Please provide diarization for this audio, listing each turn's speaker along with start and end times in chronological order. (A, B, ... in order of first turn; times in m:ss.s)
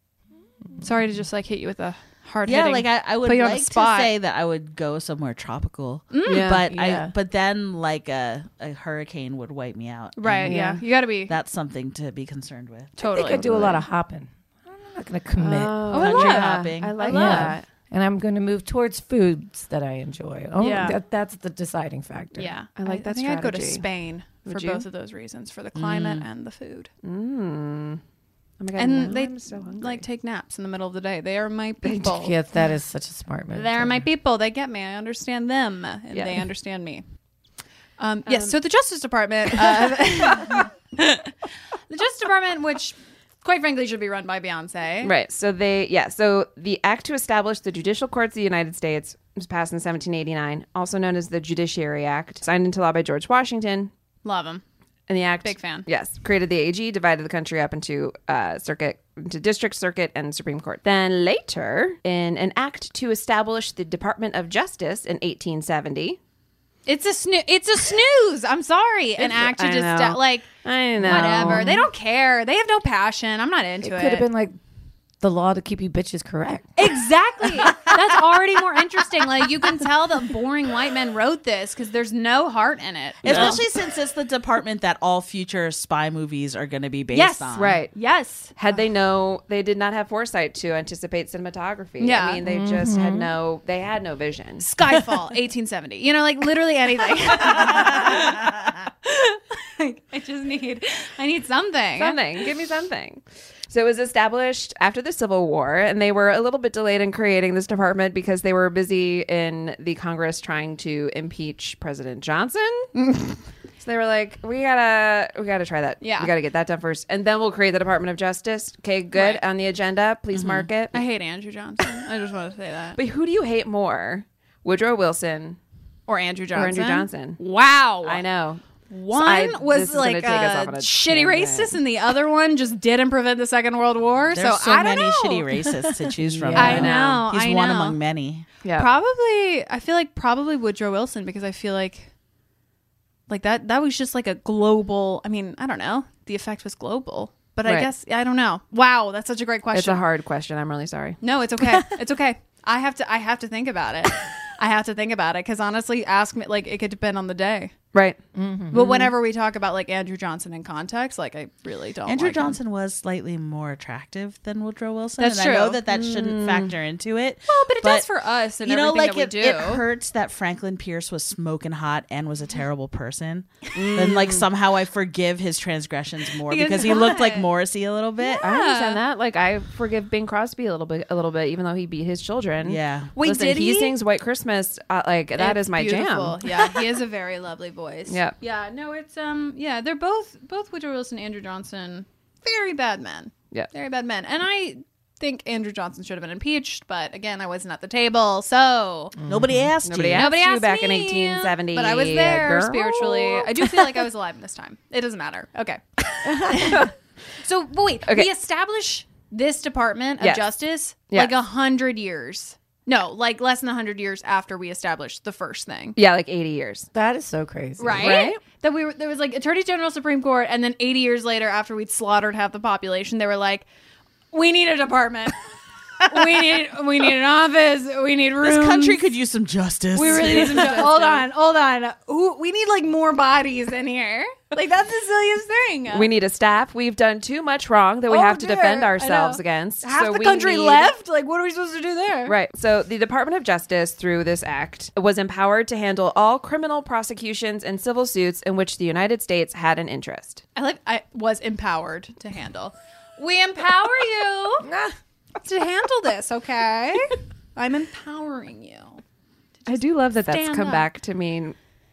0:00.8-0:04.1 A
0:02.4-0:10.6 B
0:06.1-0:06.5 A
0:06.2-0:06.7 C
0:06.7-0:07.1 D
0:10.2-0:11.4 A
0:10.4-0:10.8 C
0:11.3-0:13.0 B
0:13.0-0:13.8 A
0:13.1-0:16.0 D
0:13.3-0:13.8 C
0:15.4-0:17.7 C
0:15.9-0:17.6 A
0:16.0-0:17.1 B
0:17.0-0:22.5 D
0:20.6-0:21.0 A
0:22.4-0:26.9 A
0:22.8-0:23.8 C
0:24.4-0:24.8 C
0:25.8-0:26.3 B
0:27.0-0:28.0 C
0:28.6-0:30.0 C
0:28.8-0:32.4 A
0:31.8-0:32.1 C
0:32.0-0:34.1 D
0:33.5-0:37.0 A
0:36.1-0:36.4 C
0:38.0-0:41.3 A
0:38.3-0:38.6 C
0:41.9-0:45.1 A
0:45.0-0:53.9 C
0:54.2-0:54.6 A
0:55.1-1:06.2 C
0:55.4-0:55.9 A
1:06.9-1:14.3 A
1:09.2-1:11.8 C
1:11.1-1:11.6 D
1:13.8-1:14.6 D
1:15.2-1:16.9 D
1:16.8-1:23.6 A
1:23.2-1:27.8 B
1:23.2-1:23.6 C
1:27.1-1:28.6 A
1:27.6-1:28.0 C
1:28.6-1:34.7 C
1:32.0-1:32.4 A
1:32.4-1:33.3 D
1:34.6-1:42.5 A
1:42.0-1:52.9 C
1:53.0-1:53.3 A
1:53.8-2:01.0 C
1:56.0-1:56.3 A
1:59.1-1:59.4 A
2:00.3-2:00.7 B
2:00.9-2:03.0 A
2:03.0-2:05.6 C
2:06.1-2:08.3 A
2:06.5-2:07.4 C
2:08.0-2:11.8 C
2:08.9-2:15.7 A
2:14.3-2:18.5 B
2:16.2-2:16.9 D
2:16.6-2:18.0 A
2:16.6-2:17.2 C
2:18.6-2:18.9 C
2:18.8-2:22.1 A
2:23.3-2:30.0 A
2:29.7-2:31.2 C
2:31.2-2:37.7 A
2:38.4-2:38.8 D
2:38.7-2:39.1 C
2:38.7-2:42.6 A
2:42.1-2:48.1 B
2:45.2-2:45.8 A
2:45.9-2:46.7 C
2:47.5-2:49.8 A
2:48.6-2:58.4 B
2:53.7-2:54.5 C
2:56.5-2:57.5 A
2:58.2-2:59.0 A
2:58.4-3:06.6 C
3:02.6-3:03.1 B
3:03.2-3:04.0 A
3:05.4-3:19.2 A
3:08.1-3:08.3 C
3:19.2-3:19.7 D
3:19.3-3:20.3 B
3:19.8-3:24.1 C
3:20.2-3:36.0 A
3:26.3-3:26.9 C
3:31.1-3:31.4 C
3:36.0-3:36.9 C
3:36.9-3:38.2 D
3:37.8-3:43.7 A
3:37.9-3:38.4 C
3:44.3-3:45.4 A
3:46.0-3:49.1 A
3:48.4-3:50.9 B
3:50.0-3:56.1 A
3:50.0-3:51.2 C
3:55.9-4:00.9 C
3:58.1-4:02.4 A
4:02.3-4:10.4 C
4:10.6-4:14.7 A
4:14.6-4:14.9 D
4:15.4-4:19.0 A
4:19.7-4:21.6 C
4:19.7-4:20.9 A